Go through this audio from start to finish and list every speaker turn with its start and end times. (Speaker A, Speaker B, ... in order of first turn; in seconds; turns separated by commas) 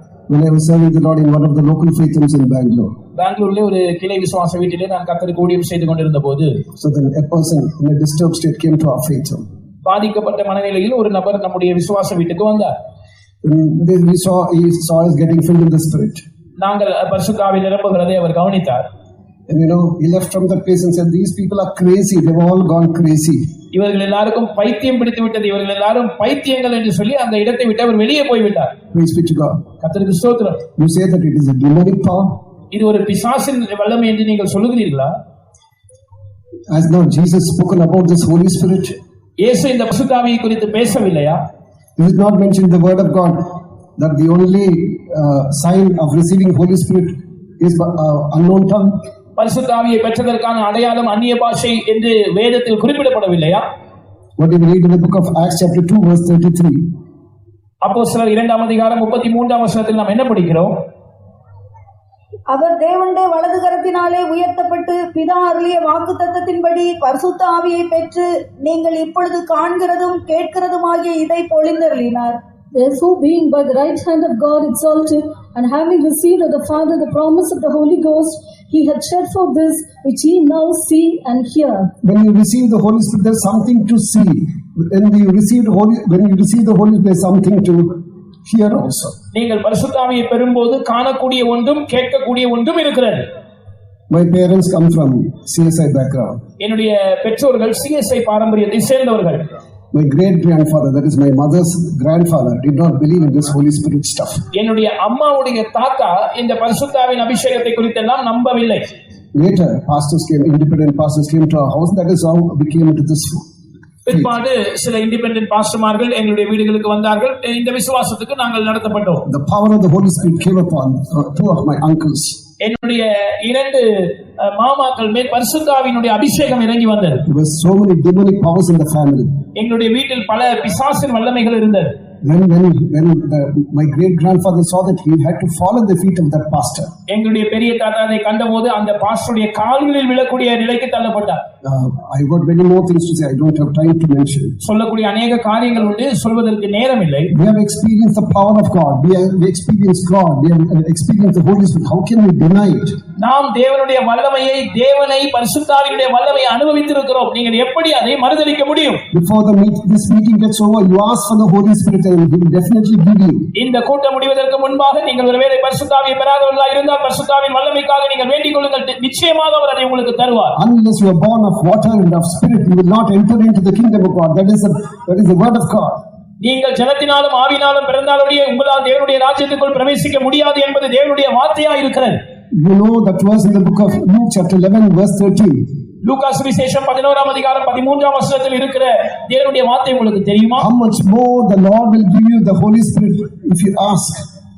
Speaker A: 0.3-2.9, Speaker B: 3.2-6.6, Speaker A: 6.8-9.4, Speaker B: 9.8-12.7, Speaker A: 13.4-16.2, Speaker B: 16.6-18.9, Speaker A: 19.5-23.5, Speaker B: 23.7-28.7, Speaker A: 28.9-29.6, Speaker B: 29.8-30.6, Speaker A: 30.8-32.4, Speaker B: 32.7-35.1, Speaker A: 36.7-39.0, Speaker B: 39.4-41.4, Speaker A: 42.0-49.0, Speaker B: 49.4-53.6, Speaker A: 54.4-56.9, Speaker B: 57.8-60.7, Speaker C: 62.5-72.4, Speaker D: 72.7-81.9, Speaker A: 82.0-89.2, Speaker B: 89.3-93.2, Speaker A: 94.1-96.4, Speaker B: 96.6-99.4, Speaker A: 99.9-104.4, Speaker B: 104.5-108.9, Speaker A: 109.3-113.5, Speaker B: 114.1-119.2, Speaker A: 119.3-122.4, Speaker B: 122.6-127.2, Speaker A: 127.3-129.3, Speaker B: 129.6-131.9, Speaker A: 132.2-136.9, Speaker B: 137.1-141.4, Speaker A: 141.6-144.6, Speaker B: 144.6-147.3, Speaker A: 147.3-153.0, Speaker B: 153.2-159.0, Speaker A: 159.1-163.5, Speaker B: 163.6-170.6, Speaker A: 170.6-176.0, Speaker B: 176.4-182.2, Speaker A: 182.6-185.6, Speaker B: 186.0-190.7, Speaker A: 190.6-194.2